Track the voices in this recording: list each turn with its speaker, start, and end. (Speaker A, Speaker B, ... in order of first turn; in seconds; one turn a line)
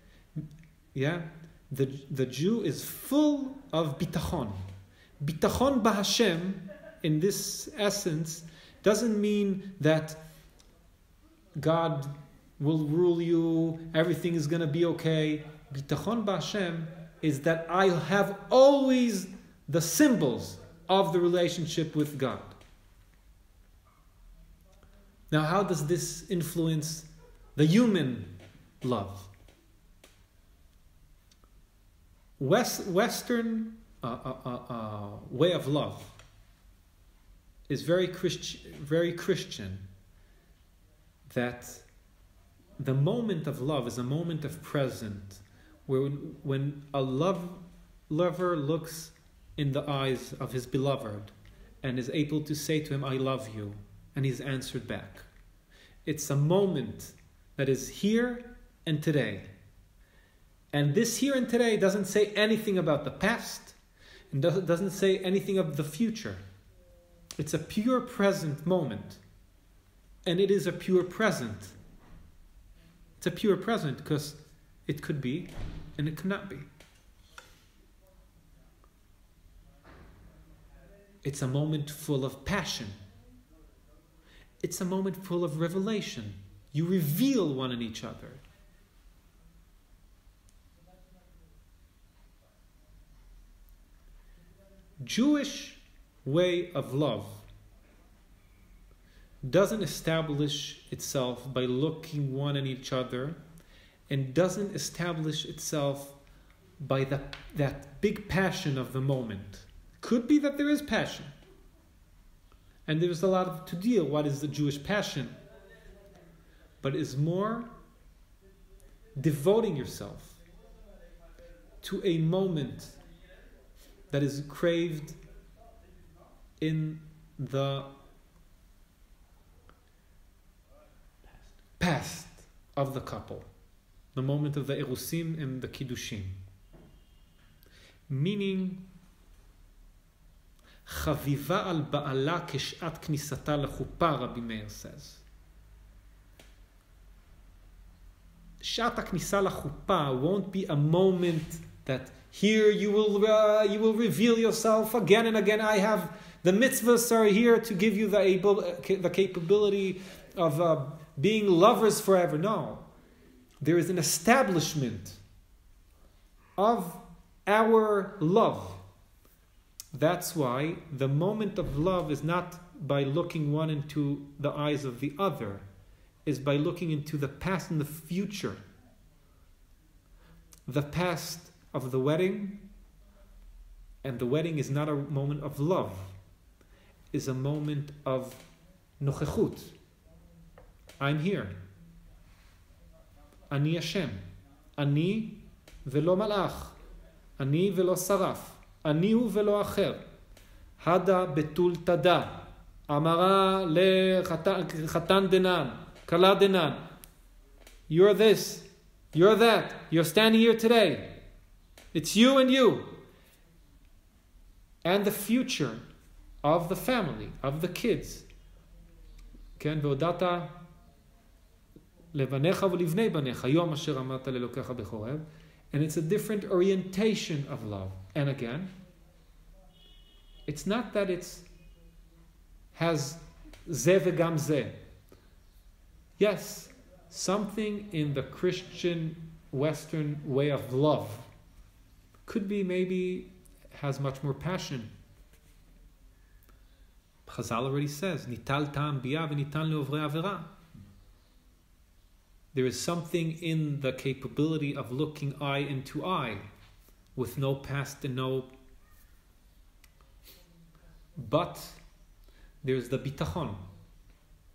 Speaker A: 0.9-4.7
Speaker A: 5.2-10.2
Speaker A: 11.6-22.6
Speaker A: 25.3-29.3
Speaker A: 32.4-36.2
Speaker A: 37.7-39.9
Speaker A: 41.3-41.9
Speaker A: 42.8-55.3
Speaker A: 56.0-59.5
Speaker A: 60.7-63.8
Speaker A: 64.3-66.4
Speaker A: 67.4-69.2
Speaker A: 70.2-71.8
Speaker A: 73.2-76.7
Speaker A: 81.2-83.0
Speaker A: 84.6-88.4
Speaker A: 95.0-97.5
Speaker A: 99.4-103.4
Speaker A: 104.1-106.2
Speaker A: 106.8-111.3
Speaker A: 112.9-115.4
Speaker A: 116.8-117.7
Speaker A: 119.2-120.4
Speaker A: 121.8-123.0
Speaker A: 124.1-125.2
Speaker A: 126.6-127.9
Speaker A: 131.8-133.5
Speaker A: 134.1-136.4
Speaker A: 138.1-138.9
Speaker A: 140.9-145.2
Speaker A: 148.6-162.9
Speaker A: 163.6-165.2
Speaker A: 166.6-168.8
Speaker A: 169.9-175.7
Speaker A: 176.2-178.6
Speaker A: 180.7-182.7
Speaker A: 184.0-186.2
Speaker A: 187.1-188.5
Speaker A: 189.0-189.8
Speaker A: 191.0-191.6
Speaker A: 193.5-194.3
Speaker A: 194.8-196.8
Speaker A: 197.4-200.0
Speaker A: 200.8-206.9
Speaker A: 207.9-211.2
Speaker A: 211.9-213.0
Speaker A: 214.8-215.8
Speaker A: 216.4-218.3
Speaker A: 219.6-220.7
Speaker A: 222.1-228.8
Speaker A: 230.5-231.5
Speaker A: 232.7-234.8
Speaker A: 236.2-241.3
Speaker A: 242.3-244.9
Speaker A: 247.3-250.5
Speaker A: 252.5-256.5
Speaker A: 257.1-258.5
Speaker A: 261.2-261.8
Speaker A: 262.6-263.7